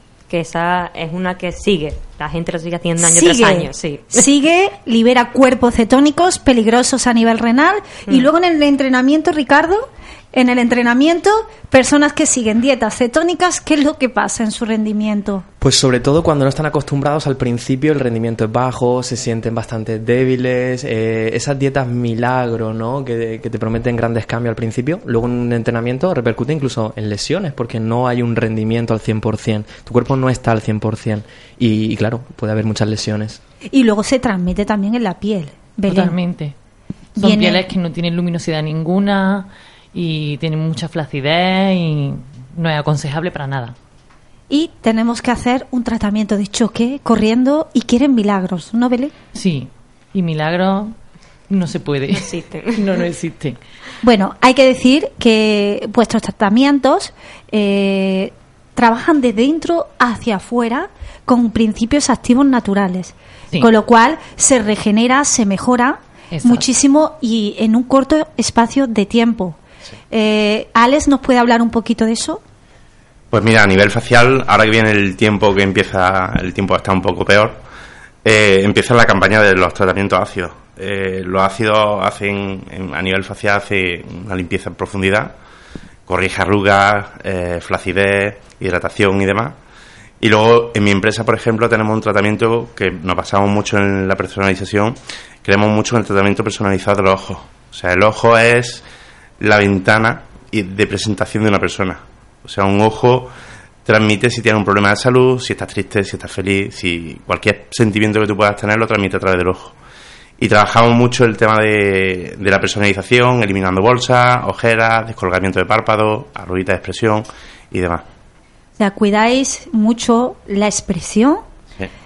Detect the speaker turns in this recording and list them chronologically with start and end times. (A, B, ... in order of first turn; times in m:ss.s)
0:00.3-0:04.3 A
0:03.0-0:15.4 B
0:15.6-0:33.4 C
0:33.7-0:36.2 B
0:35.9-0:36.5 D
0:37.2-0:43.7 D
0:37.2-0:37.6 B
0:44.5-0:49.1 B
0:49.3-0:50.9 D
0:51.5-0:53.6 D
0:52.2-0:52.8 A
0:54.0-1:09.6 B
1:06.3-1:06.6 D
1:10.1-1:12.4 B
1:13.3-1:17.6 E
1:18.2-1:25.3 E
1:26.1-1:29.5 E
1:30.2-1:38.8 E
1:39.4-1:43.3 E
1:43.8-1:49.7 E
1:50.4-1:58.0 E
1:58.8-2:01.4 B